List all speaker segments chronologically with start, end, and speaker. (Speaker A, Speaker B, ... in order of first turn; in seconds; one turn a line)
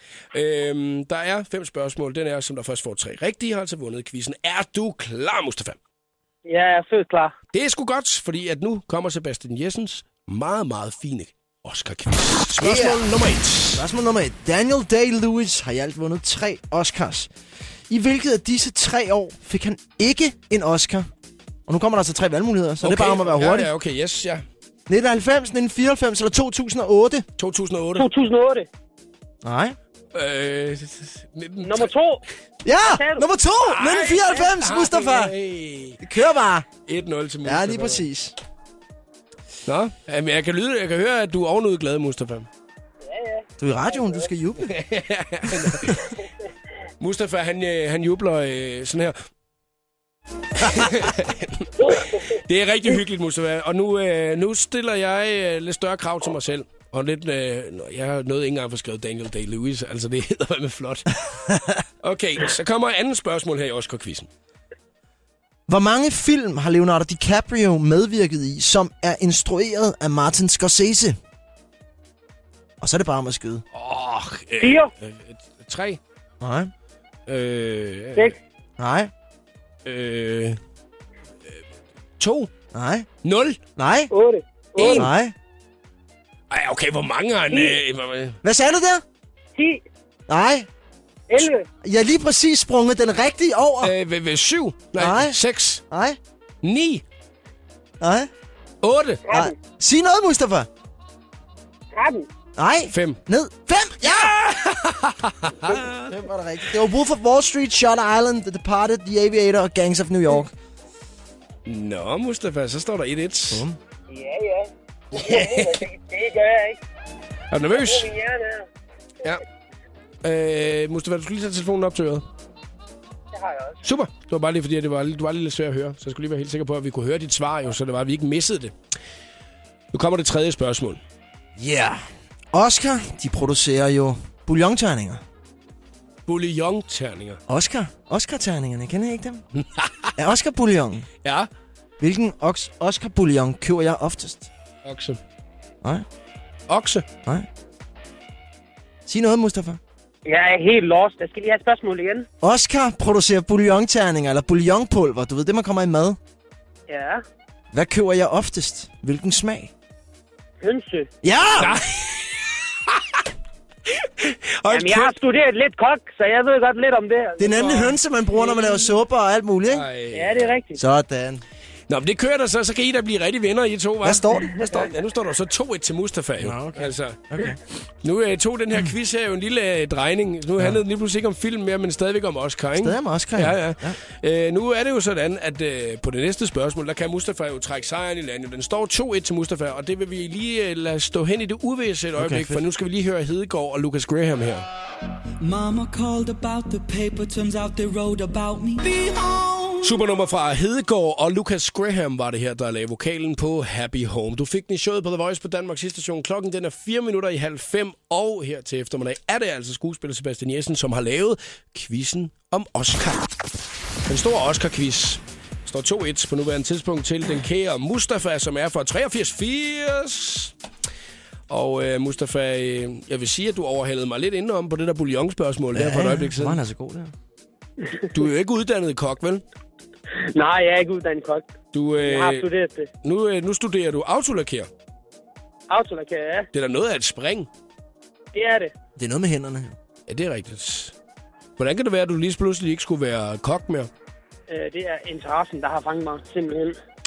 Speaker A: 0.3-5.8
Speaker B: 6.4-7.3
Speaker A: 7.5-13.8
Speaker C: 12.6-13.0
Speaker C: 13.7-17.3
Speaker C: 17.9-21.1
Speaker C: 21.7-23.7
Speaker A: 22.8-24.4
Speaker C: 24.9-27.2
Speaker A: 27.4-28.1
Speaker B: 28.0-28.7
Speaker C: 29.4-29.8
Speaker A: 30.1-31.9
Speaker B: 31.6-32.2
Speaker C: 32.6-35.3
Speaker B: 32.8-33.2
Speaker A: 33.6-36.0
Speaker C: 36.0-36.7
Speaker A: 36.9-38.0
Speaker C: 37.4-38.4
Speaker A: 39.6-42.5
Speaker B: 43.0-44.2
Speaker C: 43.6-44.7
Speaker A: 44.6-46.1
Speaker A: 47.0-49.1
Speaker A: 50.6-61.2
Speaker A: 62.0-64.3
Speaker C: 65.7-71.2
Speaker C: 72.8-73.6
Speaker A: 73.7-76.0
Speaker B: 74.6-74.9
Speaker C: 76.4-76.7
Speaker A: 77.3-78.3
Speaker C: 78.8-79.1
Speaker A: 79.8-80.6
Speaker A: 82.2-82.5
Speaker C: 82.7-83.1
Speaker A: 83.2-83.6
Speaker C: 83.8-84.1
Speaker B: 84.1-85.0
Speaker A: 84.8-85.1
Speaker C: 84.9-85.3
Speaker A: 86.5-88.4
Speaker B: 87.5-87.8
Speaker C: 88.4-89.0
Speaker B: 89.5-89.8
Speaker C: 90.3-90.7
Speaker B: 91.3-91.7
Speaker C: 91.8-93.9
Speaker A: 93.8-95.8
Speaker C: 95.0-95.4
Speaker C: 95.9-96.2
Speaker A: 96.6-97.0
Speaker C: 98.0-98.3
Speaker A: 98.8-99.2
Speaker B: 99.2-99.5
Speaker C: 99.3-100.7
Speaker B: 101.9-102.3
Speaker C: 102.6-104.3
Speaker A: 102.9-103.2
Speaker A: 104.0-106.0
Speaker C: 106.0-110.5
Speaker A: 111.7-113.6
Speaker C: 113.5-113.8
Speaker B: 114.1-116.8
Speaker A: 115.1-115.8
Speaker A: 117.5-118.1
Speaker B: 117.7-118.7
Speaker A: 120.2-122.2
Speaker B: 123.3-123.8
Speaker A: 123.8-128.7
Speaker A: 129.9-131.0
Speaker C: 131.6-135.2
Speaker A: 136.2-137.4
Speaker C: 137.5-139.4
Speaker A: 139.6-140.1
Speaker C: 140.2-141.1
Speaker A: 141.2-141.5
Speaker C: 142.0-144.5
Speaker A: 144.8-145.2
Speaker A: 146.7-147.0
Speaker C: 149.1-149.8
Speaker B: 150.2-152.3
Speaker C: 152.4-156.2
Speaker B: 156.9-157.2
Speaker C: 157.7-159.7
Speaker B: 160.6-161.1
Speaker C: 161.2-161.8
Speaker A: 161.6-163.2
Speaker A: 163.9-165.1
Speaker B: 164.7-167.9
Speaker C: 167.4-169.8
Speaker A: 169.7-170.5
Speaker B: 170.1-170.8
Speaker C: 170.8-171.4
Speaker A: 171.9-194.7
Speaker C: 174.0-174.8
Speaker C: 176.4-177.6
Speaker C: 182.8-184.0
Speaker C: 192.2-192.6
Speaker D: 195.4-200.1
Speaker A: 199.8-213.3
Speaker A: 214.1-220.5
Speaker A: 221.5-226.6
Speaker C: 225.7-227.1
Speaker A: 228.1-229.4
Speaker B: 230.3-232.9
Speaker A: 231.7-232.4
Speaker A: 233.0-234.7
Speaker B: 235.7-236.5
Speaker A: 236.5-237.5
Speaker B: 238.3-238.7
Speaker C: 238.9-239.7
Speaker A: 240.1-240.9
Speaker A: 241.6-243.9
Speaker B: 244.5-246.8